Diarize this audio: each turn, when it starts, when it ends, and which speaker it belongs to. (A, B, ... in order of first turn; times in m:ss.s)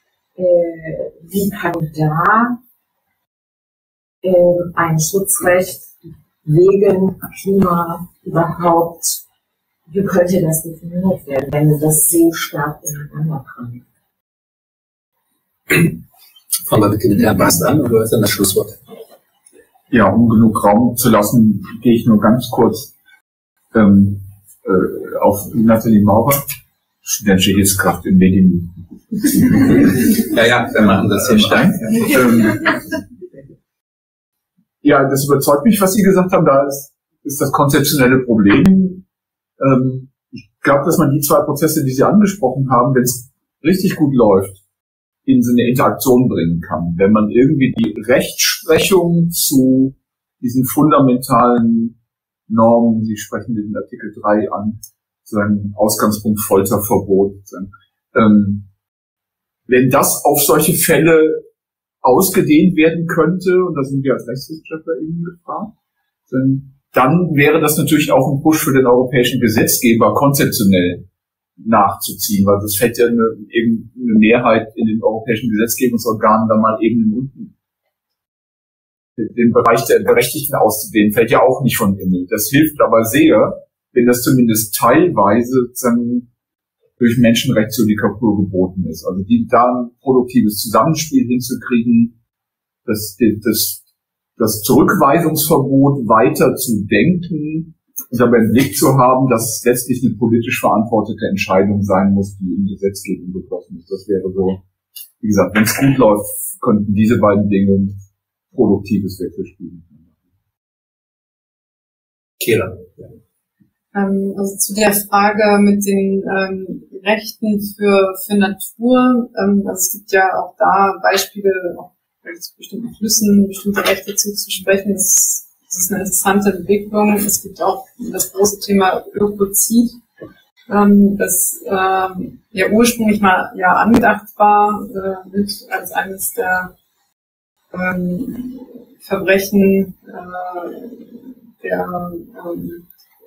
0:00.4-0:02.6 A
0:04.2-0:05.9 A
0:06.4-0:09.2 A
0:09.9-0:13.8 A
0:15.7-0:16.0 B
0:16.6-0:18.8 B
0:19.9-0:22.9 C
0:23.7-0:26.4 C
0:27.0-0:30.2 C
0:29.7-0:32.2 B
0:30.7-0:32.8 C
0:34.8-0:39.0 C
0:39.6-0:44.6 C
0:45.2-0:52.0 C
0:52.5-0:58.7 C
0:59.7-1:01.4 C
1:02.0-1:05.7 C
1:06.3-1:11.0 C
1:11.6-1:17.5 C
1:19.2-1:26.3 C
1:27.0-1:32.2 C
1:32.9-1:33.8 C
1:34.4-1:44.6 C
1:45.2-1:48.0 C
1:48.5-1:50.1 C
1:52.4-1:53.0 B
1:53.9-2:10.0 D
2:10.7-2:16.7 D
2:17.7-2:22.8 D